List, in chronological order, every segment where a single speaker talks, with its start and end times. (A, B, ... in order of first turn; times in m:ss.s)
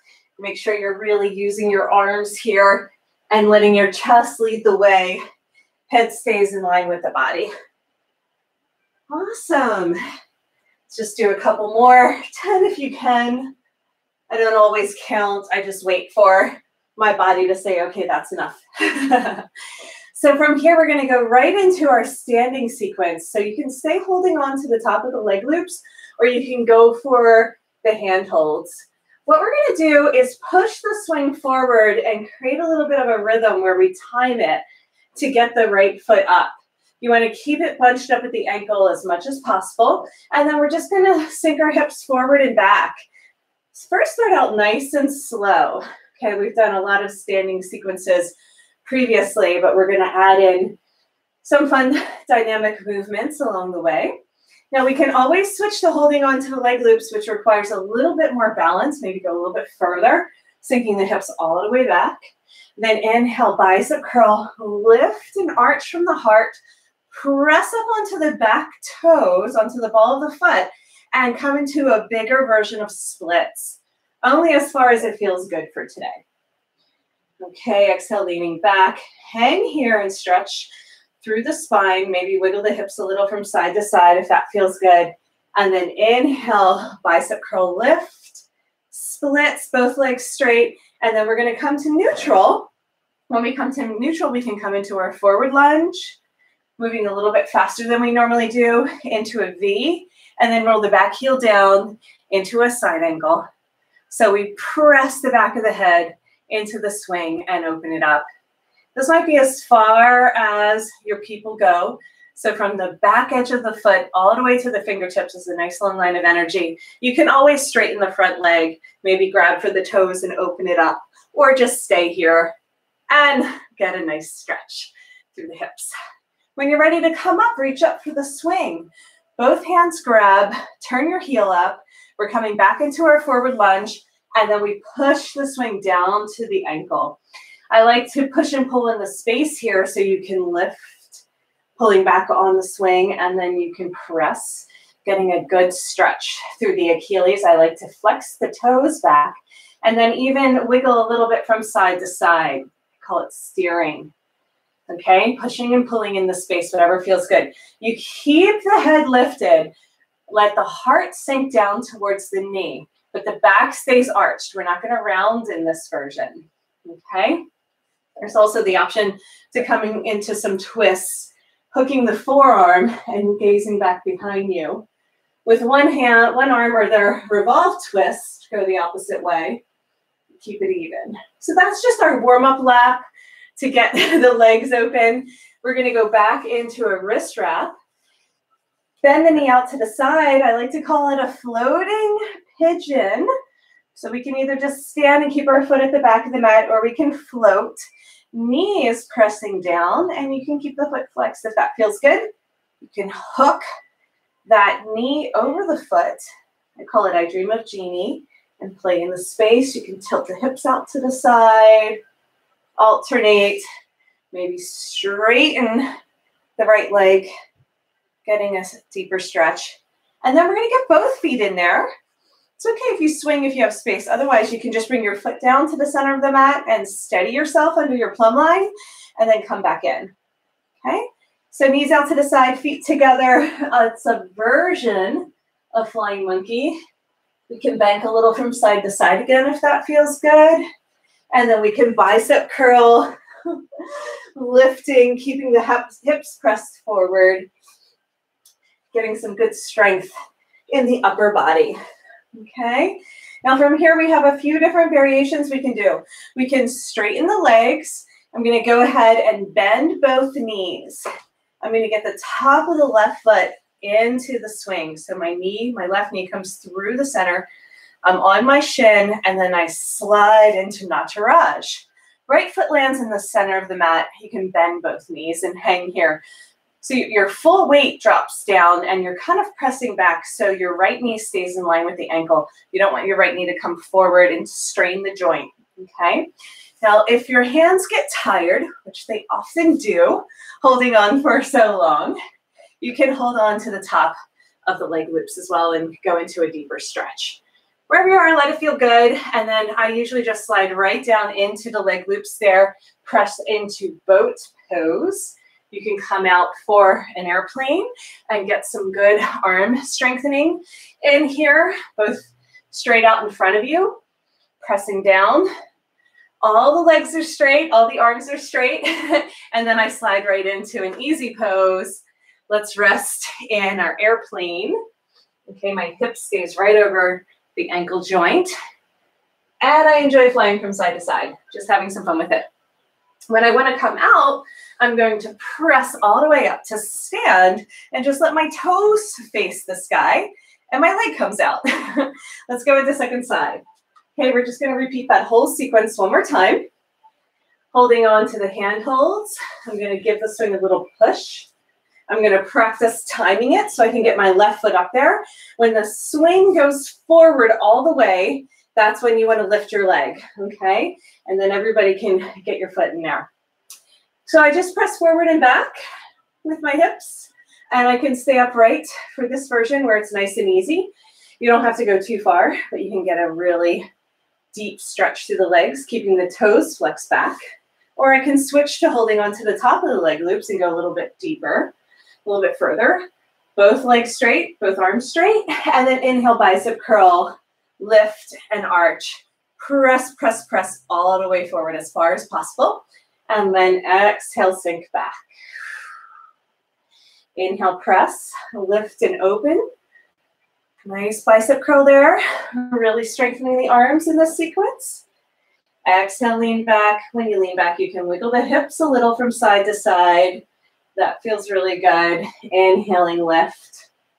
0:00.4-0:05.2 A
0:05.9-0:07.5 A
0:09.1-0:10.0 A
0:10.9-0:13.5 A
0:14.3-0:19.4 A
0:20.1-0:34.6 A
0:35.1-0:42.9 A
0:43.7-0:48.3 A
0:48.8-0:50.8 A
0:51.4-0:54.1 A
0:54.7-1:02.2 A
1:02.8-1:06.6 A
1:07.1-1:16.2 A
1:17.4-1:20.7 A
1:21.2-1:32.7 A
1:33.3-1:36.2 A
1:36.8-1:43.4 A
1:44.1-1:48.2 A
1:48.9-2:02.5 A
2:03.1-2:05.9 A
2:06.6-2:17.2 A
2:17.7-2:21.2 A
2:21.8-2:34.1 A
2:34.9-2:39.7 A
2:40.3-2:47.4 A
2:48.2-2:54.8 A
2:55.4-2:59.6 A
3:00.4-3:03.0 A
3:03.6-3:07.7 A
3:09.0-3:13.3 A
3:13.9-3:22.2 A
3:22.8-3:23.6 A
3:24.4-3:26.2 A
3:26.8-3:32.0 A
3:32.8-3:33.6 A
3:34.3-3:35.8 A
3:36.6-3:37.3 A
3:38.2-3:41.9 A
3:42.6-3:50.1 A
3:50.8-3:56.8 A
3:57.5-4:00.6 A
4:01.3-4:07.5 A
4:08.9-4:10.1 A
4:10.7-4:11.8 A
4:12.3-4:21.1 A
4:21.6-4:27.4 A
4:28.0-4:36.2 A
4:36.8-4:46.3 A
4:46.8-4:52.2 A
4:52.8-4:54.1 A
4:54.6-5:14.0 A
5:14.6-5:15.5 A
5:16.4-5:24.8 A
5:25.5-5:28.5 A
5:29.6-5:32.4 A
5:33.3-5:43.6 A
5:44.2-5:46.6 A
5:47.7-5:51.5 A
5:52.1-6:03.3 A
6:04.2-6:05.7 A
6:06.4-6:10.9 A
6:11.4-6:13.8 A
6:14.5-6:17.4 A
6:18.0-6:21.7 A
6:22.2-6:23.0 A
6:23.6-6:35.2 A
6:37.4-6:39.6 A
6:40.8-6:45.0 A
6:45.8-6:50.4 A
6:51.0-6:53.9 A